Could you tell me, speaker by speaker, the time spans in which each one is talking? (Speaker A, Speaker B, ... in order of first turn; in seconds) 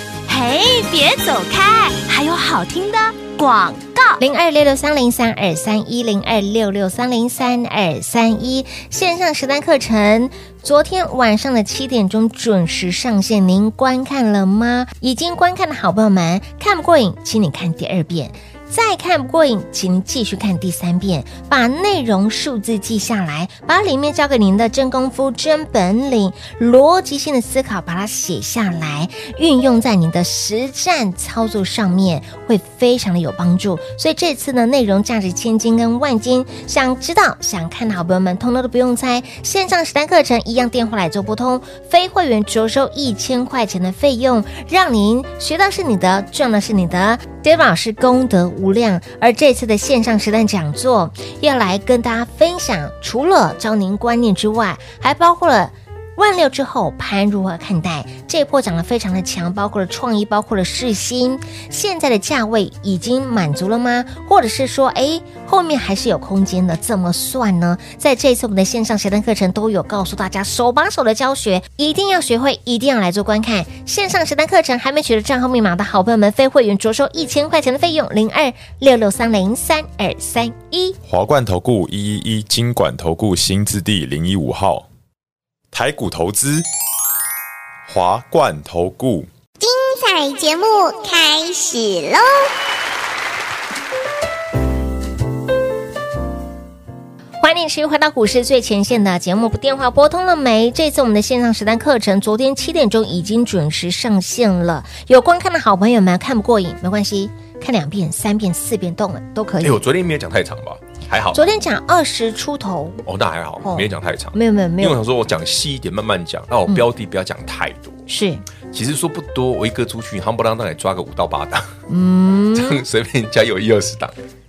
Speaker A: 0.3-4.2
Speaker B: 4.2-81.0, 97.4-109.8, 111.3-113.0, 113.6-115.0, 118.1-118.4, 121.9-122.8
Speaker C: 81.0-84.8, 85.7-86.6, 87.9-89.3
Speaker D: 89.6-92.5
Speaker E: 109.6-111.4, 113.0-118.0, 118.7-121.7, 122.5-124.2